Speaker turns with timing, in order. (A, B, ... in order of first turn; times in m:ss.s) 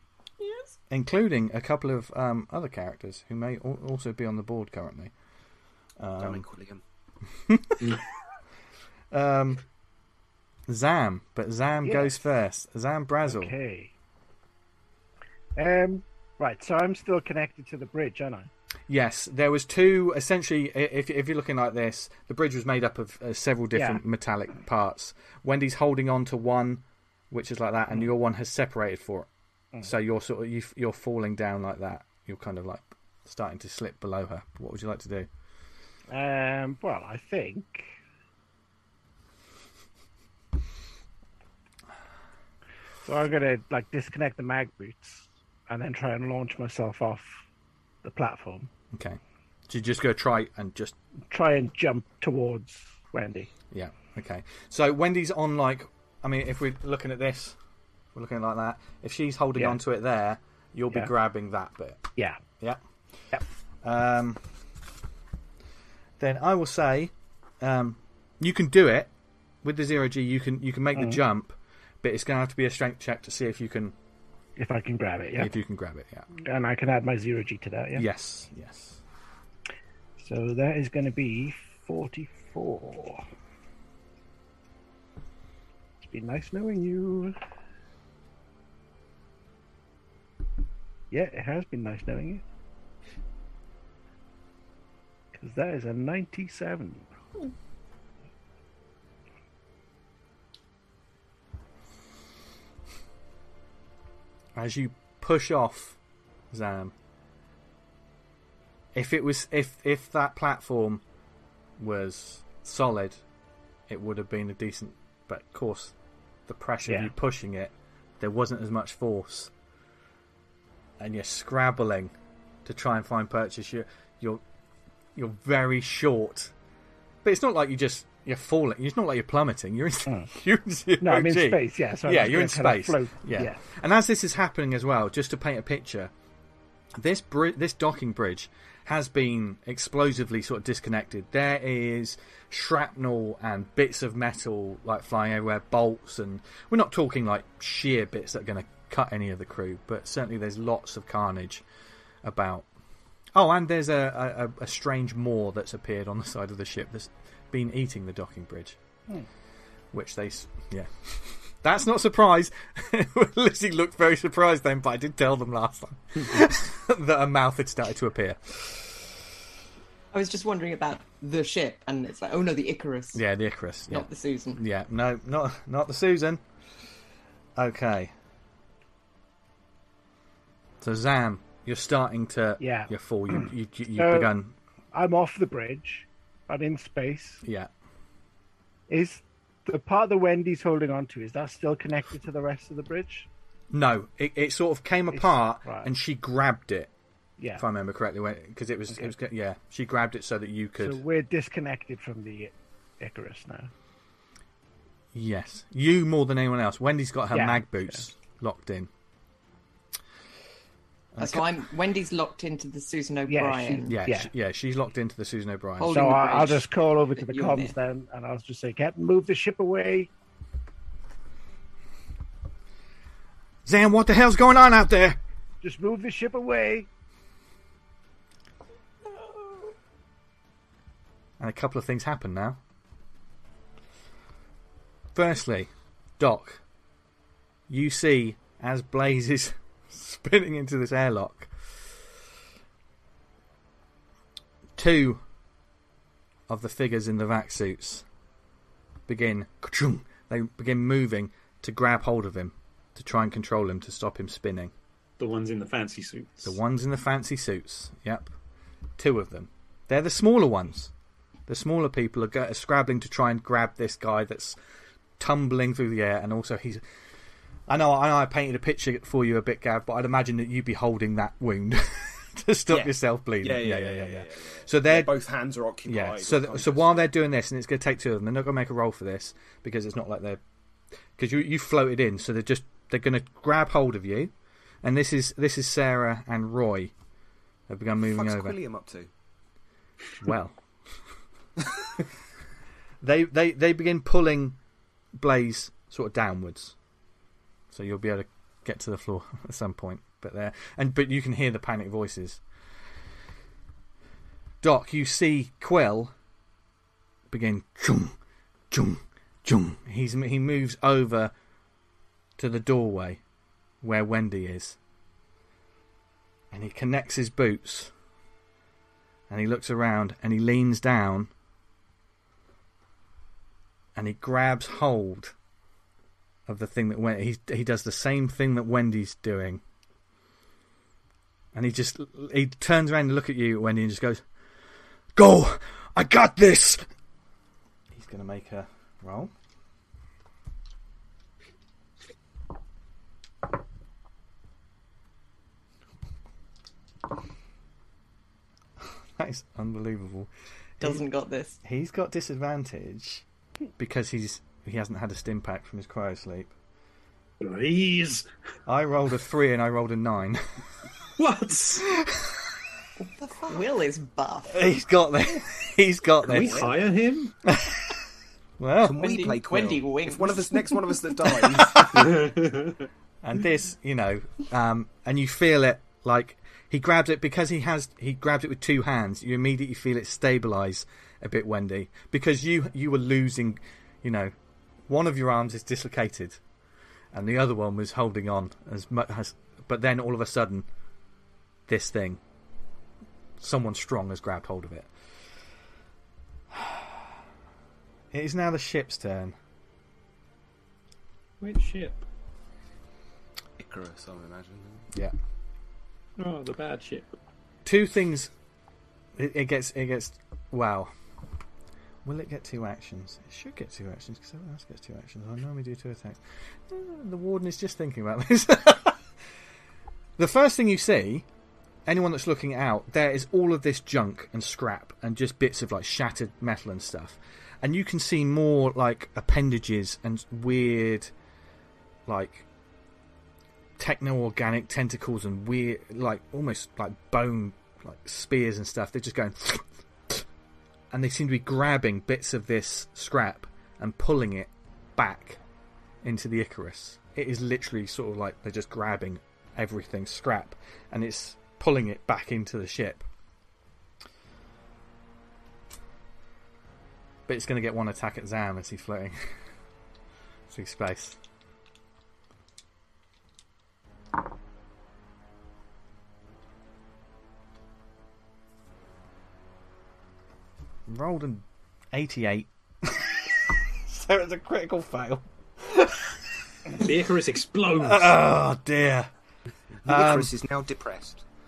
0:00.4-0:00.8 A
0:00.9-0:05.1 B
0:06.0-0:06.4 B
0:06.2-0:06.8 C
0:07.5-0:08.0 B
0:09.1-0:09.6 B
0:10.7-0:13.5 B
0:11.8-0:12.2 D
0:13.3-0:13.9 D
0:15.6-0:18.5 D
0:18.9-0:29.3 B
0:23.8-0:24.0 D
0:29.8-0:35.3 B
0:36.1-0:37.9 D
0:43.0-0:47.4 D
0:48.0-0:48.7 D
0:48.9-0:51.0 B
0:51.3-0:53.5 D
0:53.7-0:57.6 B
0:58.1-1:02.1 B
1:02.2-1:02.4 D
1:03.8-1:04.4 B
1:06.2-1:09.1 B
1:09.6-1:14.0 B
1:14.6-1:15.5 D
1:15.4-1:16.3 B
1:16.4-1:18.0 D
1:18.0-1:19.0 B
1:20.2-1:23.2 D
1:26.0-1:27.4 D
1:31.1-1:32.4 D
1:35.3-1:37.1 D
1:44.6-1:46.0 B
1:46.5-1:46.9 B
1:48.9-1:51.0 B
1:51.8-1:53.2 B
1:53.9-1:56.0 B
1:56.5-1:59.5 B
1:56.9-1:57.1 D
2:01.0-2:02.1 B
2:02.6-2:04.4 B
2:05.2-2:06.5 B
2:07.2-2:16.1 B
2:11.0-2:13.6 D
2:17.0-2:31.6 B
2:32.2-2:32.7 B
2:33.3-2:38.8 B
2:39.9-2:49.2 B
2:50.1-2:53.2 A
2:53.1-2:56.4 B
2:53.9-2:54.6 A
2:57.6-2:58.1 B
3:00.8-3:04.6 B
3:02.6-3:03.4 D
3:04.0-3:04.3 D
3:04.9-3:07.4 D
3:07.4-3:07.7 B
3:08.9-3:13.3 D
3:13.7-3:16.9 B
3:15.1-3:15.9 D
3:17.4-3:17.6 D
3:17.6-3:21.0 B
3:20.8-3:23.7 D
3:25.1-3:28.9 B
3:27.3-3:28.0 D
3:31.1-3:31.5 B
3:31.2-3:34.0 A
3:33.3-3:34.3 D
3:33.9-3:36.0 B
3:35.8-3:37.8 A
3:35.9-3:40.1 D
3:43.6-3:45.2 B
3:45.6-3:46.9 D
3:51.4-3:52.6 B
3:55.2-3:56.6 B
3:57.7-4:02.0 B
4:04.8-4:05.2 B
4:06.5-4:08.0 B
4:09.1-4:14.7 B
4:15.2-4:16.6 E
4:16.4-4:18.3 B
4:19.0-4:20.9 B
4:21.5-4:24.6 B
4:25.2-4:26.8 B
4:27.7-4:35.2 B
4:32.7-4:37.1 C
4:35.8-4:40.4 B
4:41.2-4:44.3 B
4:44.8-4:46.9 B
4:47.7-4:48.6 B
4:48.0-4:49.1 C
4:50.2-4:51.0 B
4:53.0-4:54.6 B
4:55.1-4:56.8 B
4:57.7-5:02.4 B
5:04.6-5:06.1 B
5:07.3-5:08.2 B
5:08.7-5:11.3 B
5:12.4-5:13.2 B
5:13.8-5:14.8 B
5:16.5-5:17.9 B
5:19.3-5:21.3 B
5:24.0-5:25.3 B
5:26.5-5:29.6 B
5:31.5-5:34.2 B
5:35.2-5:36.9 B
5:37.9-5:39.3 B
5:48.8-5:51.1 B
5:50.8-5:51.6 A
5:51.6-5:53.2 B
5:53.8-5:56.5 B
5:57.4-5:58.3 E
5:58.7-6:00.6 B
6:01.2-6:01.9 E
6:02.0-6:02.4 B
6:03.2-6:04.7 A
6:04.5-6:06.7 B
6:06.3-6:07.3 E
6:06.3-6:06.7 C
6:07.5-6:08.0 B
6:08.6-6:09.0 B
6:08.8-6:12.3 C
6:09.0-6:11.0 A
6:11.6-6:12.2 B
6:12.0-6:12.8 E
6:13.2-6:24.3 B
6:24.9-6:26.4 B
6:27.1-6:30.7 B
6:31.7-6:32.2 B
6:33.4-6:34.9 B
6:36.5-6:37.2 B
6:38.1-6:39.4 B
6:41.4-6:42.0 E
6:43.6-6:44.9 C
6:46.2-6:47.1 E
6:47.6-6:48.3 B
6:49.2-6:50.9 B
6:52.0-6:59.1 B
7:00.2-7:01.3 B
7:01.9-7:11.1 B
7:12.1-7:12.5 B
7:13.8-7:20.2 B
7:20.9-7:25.4 B
7:26.0-7:33.0 B
7:37.3-7:39.5 B
7:40.5-7:41.2 B
7:50.9-7:56.8 B
7:56.7-7:58.2 E
7:57.8-7:59.1 B
7:59.8-8:01.2 C
7:59.8-8:00.3 B